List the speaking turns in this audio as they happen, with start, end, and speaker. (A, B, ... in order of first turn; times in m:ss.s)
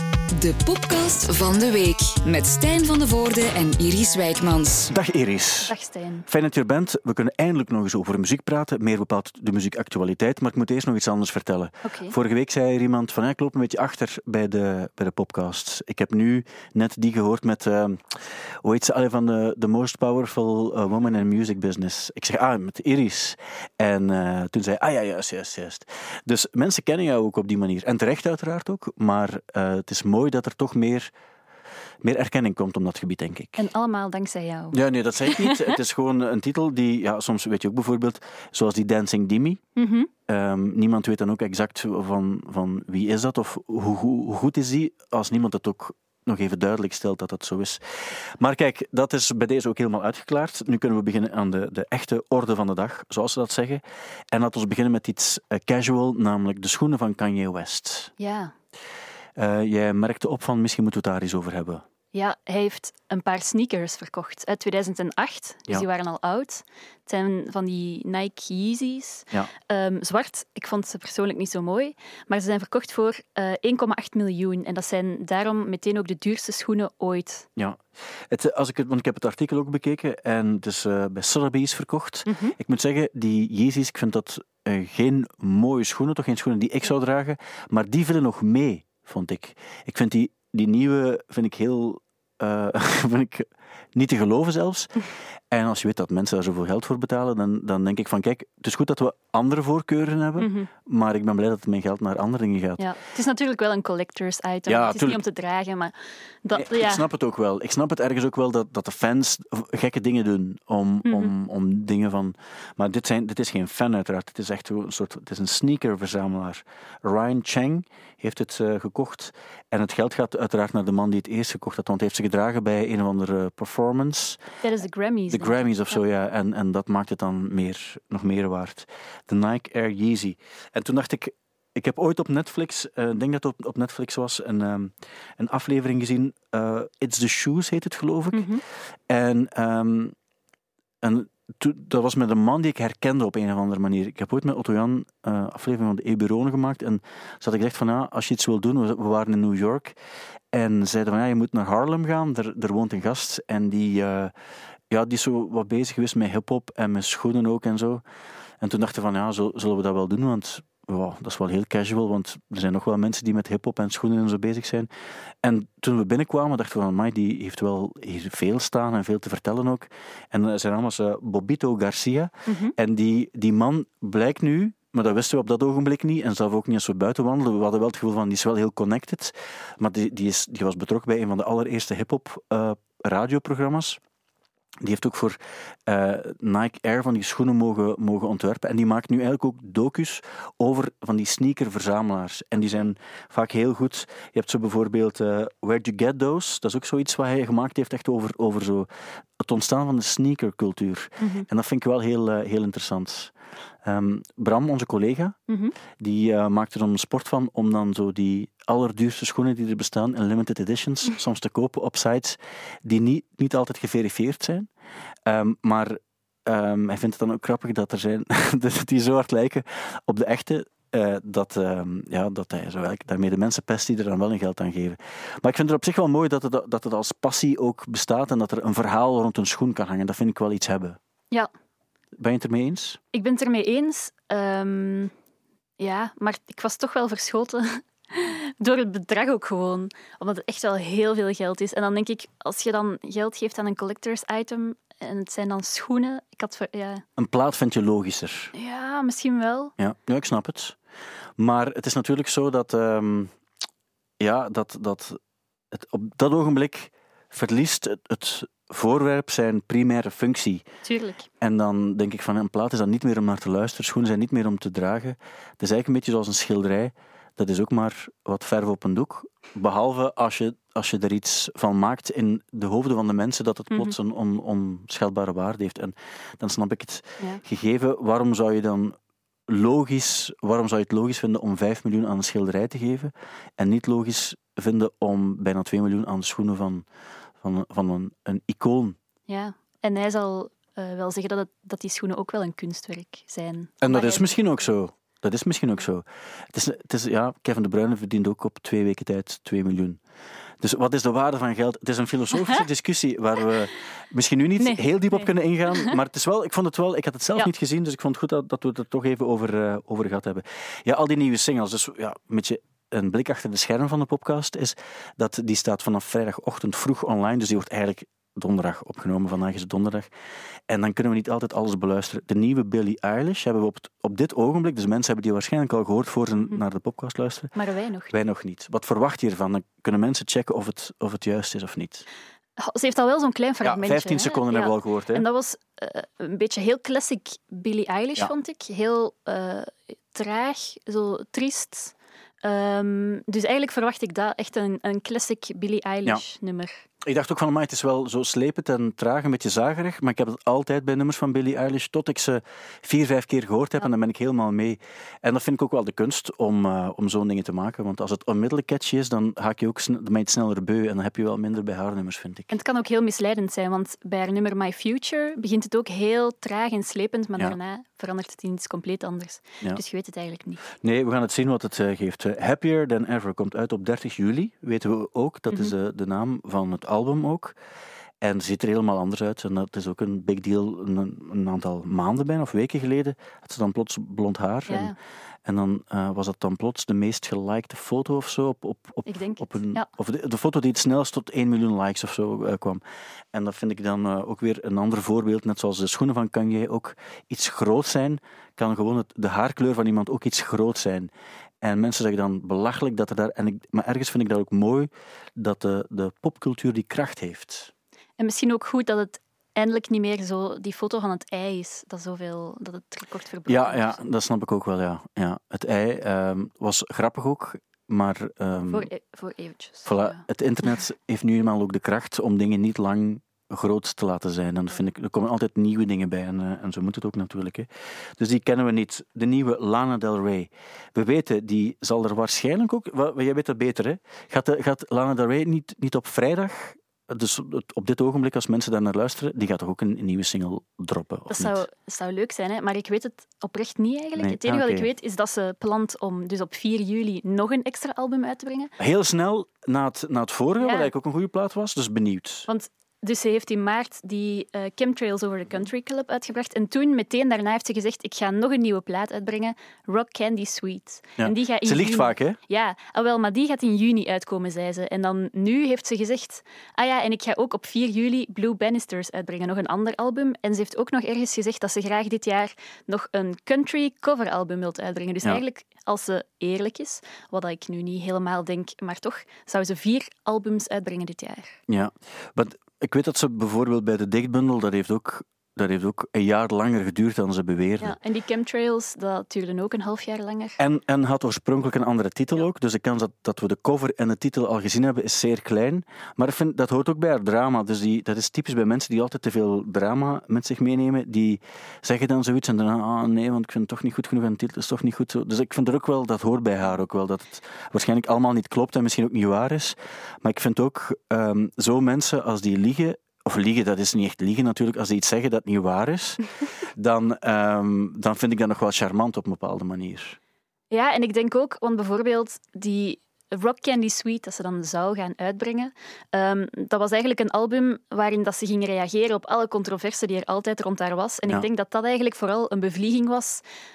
0:00.3-0:04.9 A
0:04.9-0:05.7 B
0:05.7-0:06.2 C
0:06.3-0:31.1 B
0:11.8-0:12.1 C
0:32.0-0:33.6 B
0:33.6-0:35.7 C
0:34.7-0:39.6 B
0:39.8-0:40.1 C
0:40.3-0:58.1 B
0:58.2-0:58.5 C
0:59.4-1:01.8 B
1:02.1-1:17.5 C
1:17.6-1:42.8 B
1:22.2-1:22.5 C
1:40.4-1:40.7 C
1:42.8-1:47.0 C
1:44.7-1:45.2 B
1:46.5-2:04.4 B
1:51.0-1:51.3 C
2:04.6-2:05.6 C
2:05.3-2:18.5 B
2:18.3-2:18.6 C
2:19.1-2:20.1 B
2:21.0-2:30.0 B
2:30.5-2:34.3 B
2:34.9-2:38.0 B
2:38.6-2:44.9 B
2:45.4-3:04.0 B
2:52.5-2:52.7 C
3:04.8-3:18.9 B
3:19.4-3:23.3 B
3:21.2-3:21.4 C
3:23.8-3:25.4 B
3:25.5-3:25.7 C
3:26.0-3:34.7 B
3:35.2-3:51.0 B
3:52.1-3:53.0 B
3:53.1-3:55.1 C
3:55.8-4:07.0 C
4:07.2-4:08.5 B
4:08.5-4:09.7 C
4:09.8-4:10.8 B
4:11.4-4:13.3 B
4:14.2-4:15.2 B
4:15.7-4:20.6 B
4:20.8-4:21.3 C
4:21.4-4:39.0 B
4:39.5-4:46.8 B
4:47.4-4:49.0 B
4:49.3-4:54.4 C
4:53.8-5:00.0 B
5:00.6-5:20.1 B
5:04.6-5:05.9 C
5:20.7-5:27.5 B
5:27.5-5:28.1 C
5:28.1-5:32.0 B
5:32.6-5:46.8 C
5:33.6-5:35.2 B
5:47.0-6:02.5 B
6:02.5-6:10.7 C
6:10.8-6:17.6 B
6:18.2-6:24.9 B
6:24.7-6:25.0 C
6:25.4-6:32.8 B
6:29.1-6:29.9 C
6:33.3-6:41.1 B
6:41.6-6:47.7 B
6:48.2-6:54.0 C
6:53.5-6:58.9 B
6:58.6-7:00.2 C
6:59.8-7:21.6 B
7:21.3-7:28.7 C
7:24.2-7:24.9 B
7:28.8-7:32.5 B
7:30.6-7:30.9 C
7:32.5-8:01.6 C
7:41.2-7:42.4 B
8:01.7-8:08.0 B
8:07.8-8:10.6 C
8:10.6-8:40.2 B
8:40.7-8:53.4 C